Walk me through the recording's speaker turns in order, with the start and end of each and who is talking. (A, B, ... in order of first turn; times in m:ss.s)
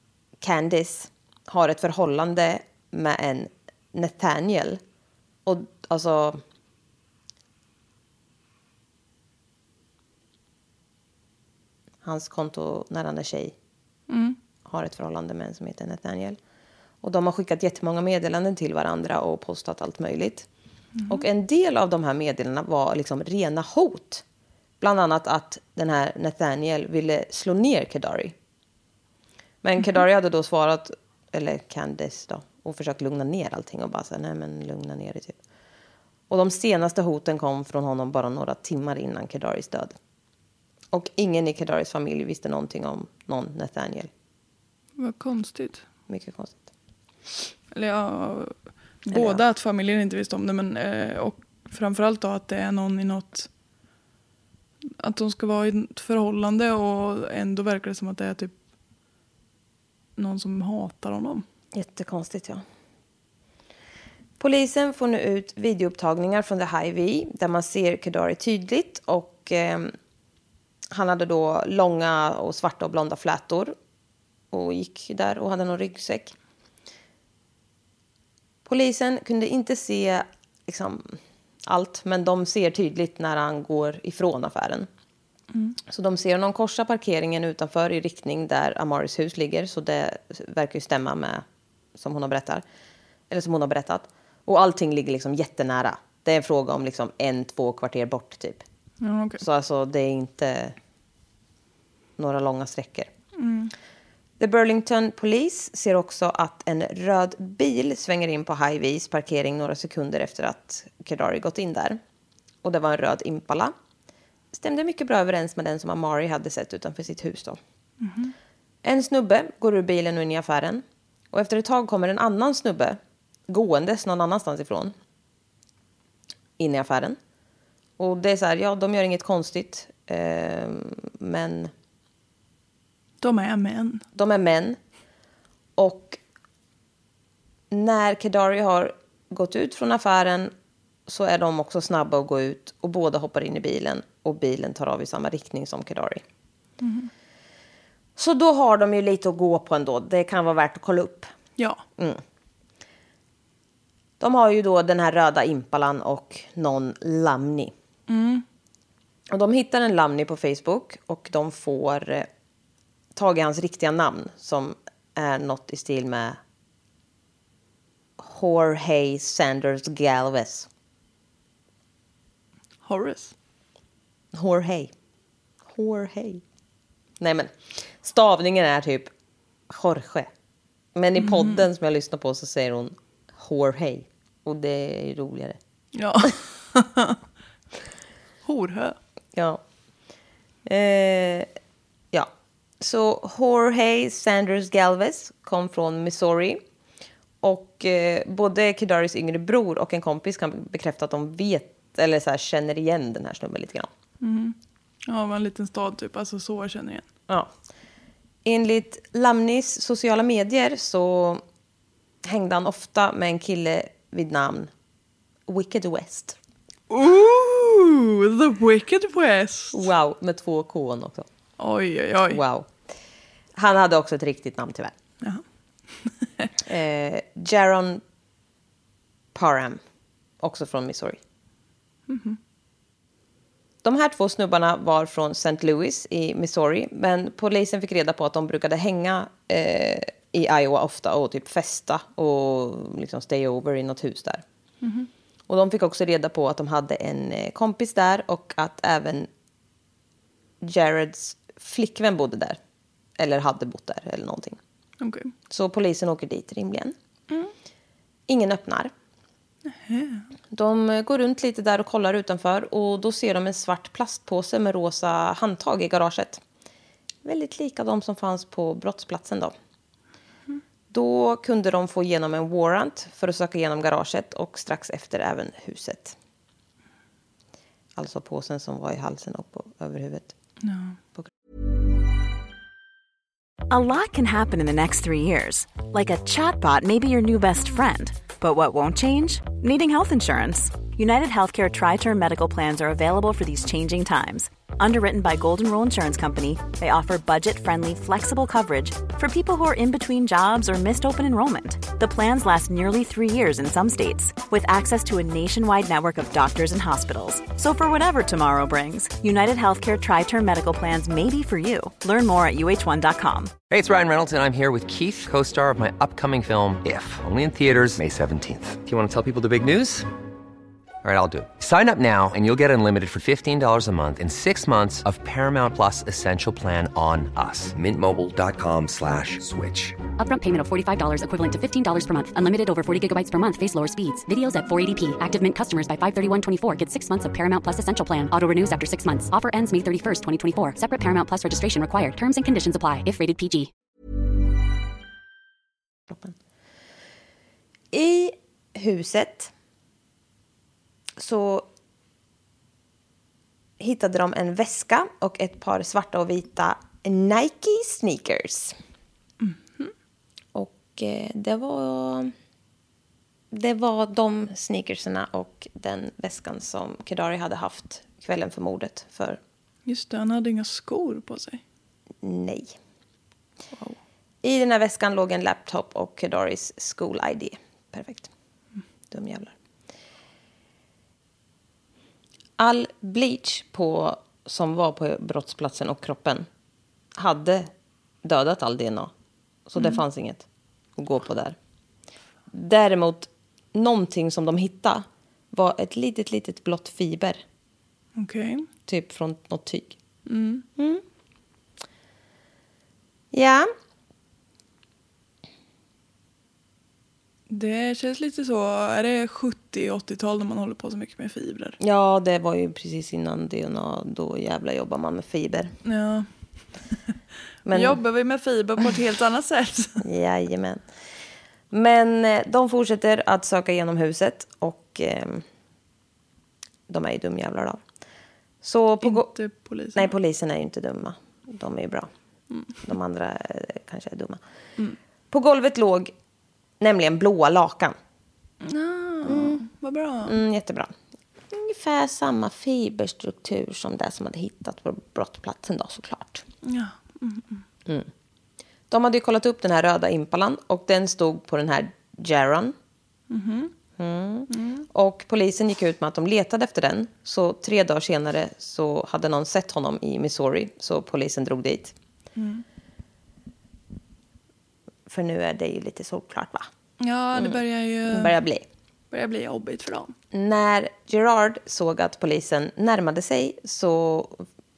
0:00.4-0:04.8 A
0:05.4-0:06.4 A
0:12.0-0:13.5 A
0:14.1-0:14.4 B
0:14.6-0:16.4 A
0:17.0-0:20.5 A
0:21.0-0:21.2 B
0:21.1-0:24.2 A
0:24.8-0:28.3 A
0:29.6-0:35.4 A
0:36.3-0:40.0 A
0:40.9-0:44.1 A
0:45.0-0:45.8 B
0:46.1-0:46.6 A
0:47.7-0:53.5 B
0:49.1-0:49.4 A
0:55.0-0:58.6 B
1:00.2-1:01.4 B
1:01.7-1:02.6 A
1:04.4-1:09.9 A
1:10.9-1:13.8 A
1:14.5-1:16.3 A
1:18.6-1:24.9 A
1:25.9-1:32.6 A
1:33.3-1:38.6 A
1:39.0-1:39.4 B
1:39.4-1:40.8 A
1:42.2-1:43.1 A
1:43.4-1:43.7 B
1:44.4-1:52.0 A
1:52.6-1:53.7 A
1:54.5-1:57.6 A
1:58.0-1:58.3 B
1:58.8-2:04.9 A
2:06.6-2:07.2 A
2:08.0-2:11.7 A
2:13.2-2:14.0 B
2:14.1-2:14.8 A
2:15.8-2:16.2 A
2:17.7-2:20.5 A
2:21.1-2:26.2 A
2:26.8-2:27.1 B
2:28.2-2:31.3 A
2:32.0-2:32.2 A
2:34.2-2:37.7 A
2:38.1-2:38.4 B
2:39.3-2:42.3 A
2:43.1-2:46.4 A
2:48.2-2:50.7 A
2:52.8-2:53.3 B
2:54.3-2:54.9 A
2:55.6-2:56.4 A
2:57.2-2:59.1 A
2:59.7-3:00.3 A
3:00.9-3:05.6 A
3:01.2-3:01.6 B
3:06.0-3:07.2 B
3:08.4-3:09.0 B
3:09.3-3:09.6 A
3:10.6-3:11.5 A
3:12.1-3:16.6 A
3:17.4-3:23.9 A
3:24.2-3:24.6 B
3:25.1-3:27.0 B
3:28.4-3:31.4 A
3:32.2-3:34.7 A
3:35.5-3:36.4 A
3:36.9-3:39.8 B
3:39.7-3:41.3 A
3:41.6-3:42.4 B
3:42.3-3:42.7 A
3:43.6-3:44.9 A
3:45.2-3:46.5 B
3:46.6-3:48.0 A
3:49.3-3:49.8 A
3:50.4-3:51.2 A
3:52.1-3:52.4 B
3:53.8-4:04.4 A
4:04.8-4:05.1 B
4:05.5-4:09.3 A
4:10.6-4:12.6 A
4:13.2-4:14.6 A
4:15.0-4:15.3 B
4:15.5-4:17.0 A
4:18.3-4:18.9 A
4:19.7-4:20.3 B
4:20.5-4:26.4 A
4:27.2-4:29.5 A
4:30.9-4:36.2 A
4:38.0-4:40.3 A
4:40.6-4:41.0 B
4:43.7-5:13.6 C
5:13.7-5:20.1 D
5:21.0-5:30.0 D
5:30.2-5:43.7 E
5:47.9-5:49.5 A
5:51.2-5:51.7 A
5:53.8-5:58.8 A
5:59.4-5:59.9 B
6:00.5-6:02.3 A
6:03.5-6:09.4 A
6:09.9-6:11.6 B
6:12.2-6:12.8 A
6:14.4-6:18.3 A
6:19.1-6:19.5 A
6:22.6-6:26.4 A
6:27.2-6:27.7 A
6:28.2-6:29.1 A
6:29.7-6:30.4 A
6:31.0-6:31.6 A
6:32.5-6:37.4 A
6:38.2-6:38.7 B
6:38.9-6:40.0 A
6:40.3-6:40.6 B
6:40.8-6:41.0 A
6:43.3-6:43.7 A
6:47.5-6:51.8 B
6:51.8-6:55.7 A
6:55.8-6:56.7 B
6:57.6-6:58.0 A
6:57.7-7:00.0 B
7:00.0-7:00.8 A
7:01.7-7:05.4 A
7:06.9-7:07.8 A
7:08.6-7:09.3 A
7:09.0-7:10.1 B
7:09.9-7:12.1 A
7:12.8-7:14.4 A
7:15.3-7:16.1 A
7:16.8-7:18.0 A
7:18.6-7:20.4 B
7:19.2-7:19.6 A
7:20.2-7:20.9 A
7:21.5-7:26.4 A
7:26.6-7:27.6 B
7:28.9-7:32.7 A
7:33.3-7:33.7 B
7:34.0-7:41.9 A
7:34.5-7:34.8 B
7:42.4-7:42.6 B
7:45.1-7:46.7 A
7:47.0-7:48.3 B
7:47.3-7:48.6 A
7:49.1-7:50.1 B
7:50.3-7:54.4 A